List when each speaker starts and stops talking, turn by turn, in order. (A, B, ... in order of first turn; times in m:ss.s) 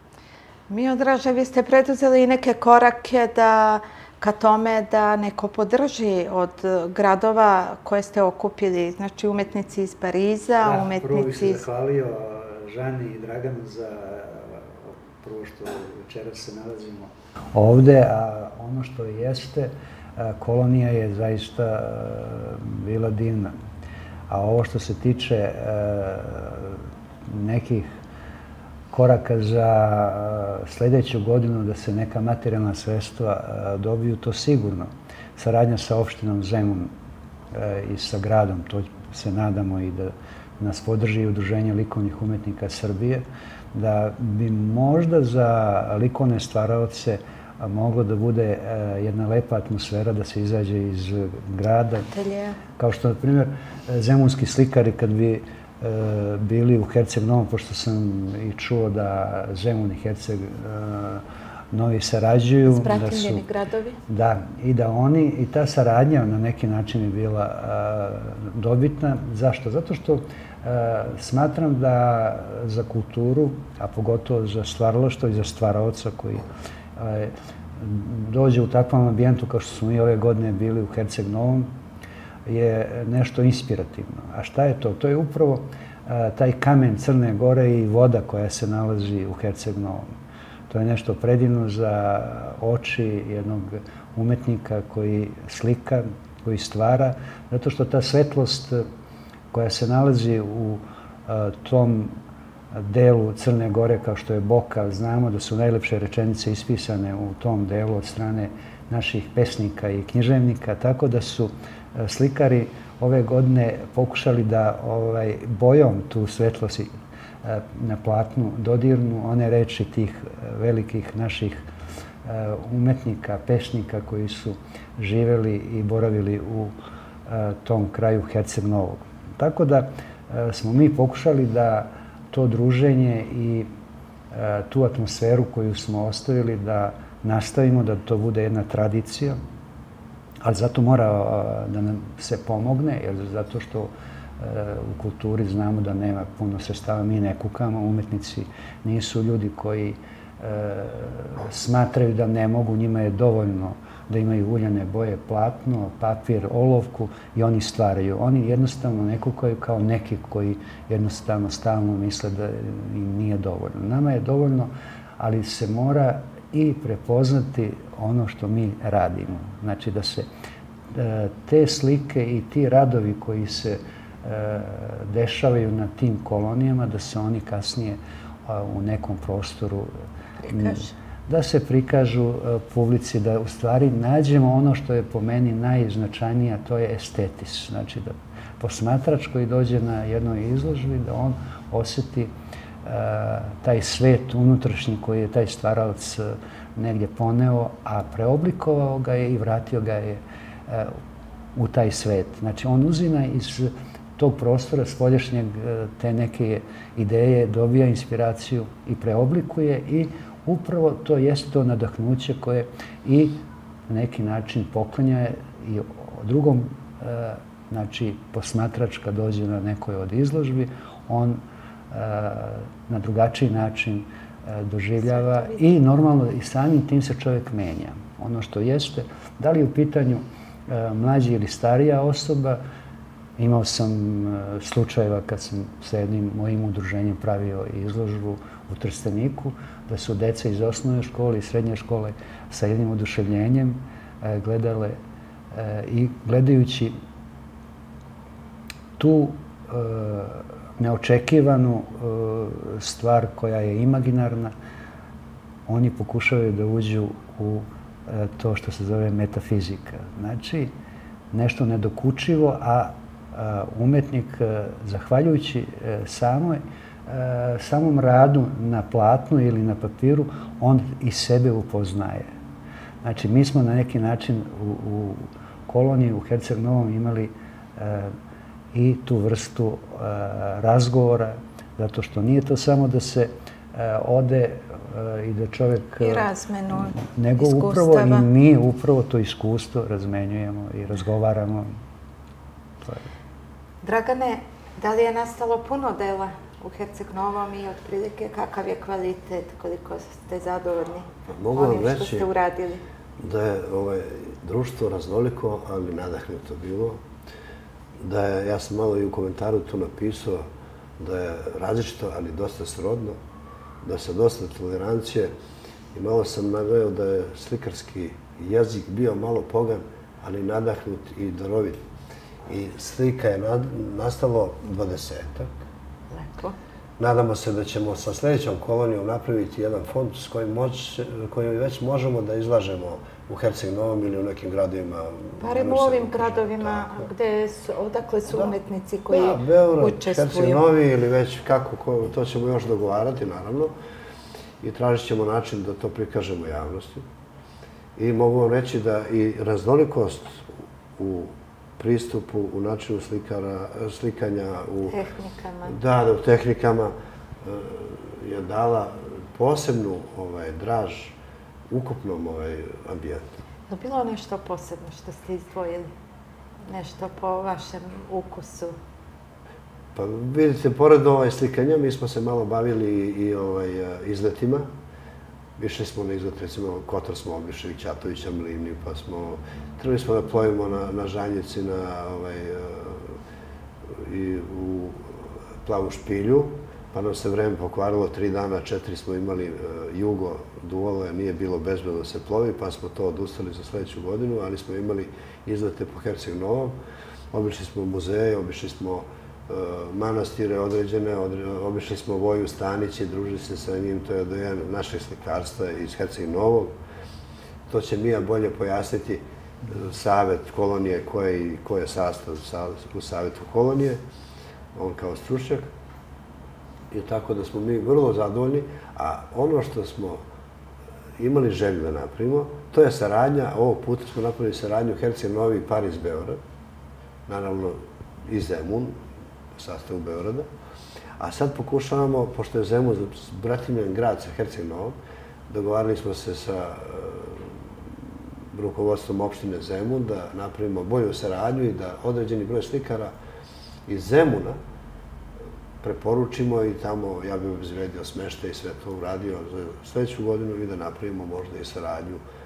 0:00.7-0:11.6 A
0:10.6-0:23.6 B
0:24.3-0:27.9 B
0:28.9-0:36.9 B
0:37.5-0:52.1 B
0:52.1-0:52.6 A
0:52.8-1:03.4 B
1:02.7-1:04.0 A
1:04.1-1:21.7 B
1:22.5-1:30.1 B
1:30.7-1:38.8 B
1:39.5-1:42.2 B
1:42.7-2:01.7 B
2:02.2-2:06.8 B
2:07.3-2:13.7 B
2:14.3-2:19.4 B
2:20.4-2:50.3 B
2:50.9-2:59.9 B
3:00.4-3:01.0 A
3:00.5-3:12.3 B
3:12.8-3:21.0 B
3:21.6-3:52.6 B
3:45.1-3:45.7 A
3:53.4-4:05.0 B
4:05.5-4:07.0 B
4:09.0-4:14.5 B
4:15.7-4:20.7 B
4:21.3-4:32.3 B
4:33.0-4:38.2 B
4:38.7-4:51.7 B
4:46.0-4:48.3 A
4:52.8-4:53.1 B
4:53.8-5:02.8 A
5:01.3-5:02.3 C
5:03.2-5:07.0 C
5:08.0-5:10.5 C
5:11.0-5:13.2 C
5:13.8-5:15.3 C
5:15.9-5:21.8 C
5:22.5-5:25.5 C
5:26.1-5:26.6 A
5:27.0-5:37.1 C
5:35.4-5:40.6 A
5:39.1-5:43.7 C
5:44.6-5:47.0 C
5:48.0-5:55.0 C
5:54.9-5:55.8 A
5:55.7-6:01.2 C
6:01.7-6:03.3 C
6:03.7-6:05.9 A
6:06.7-6:08.8 A
6:10.0-6:14.7 C
6:15.6-6:23.2 C
6:23.9-6:36.8 C
6:37.3-6:46.7 C
6:47.7-6:54.0 C
6:54.8-6:55.7 C
6:56.9-7:00.2 C
7:01.2-7:06.4 C
7:07.3-7:09.0 C
7:09.6-7:10.5 C
7:11.2-7:15.0 C
7:15.5-7:17.6 C
7:18.5-7:23.1 C
7:23.9-7:24.6 C
7:25.8-7:32.2 C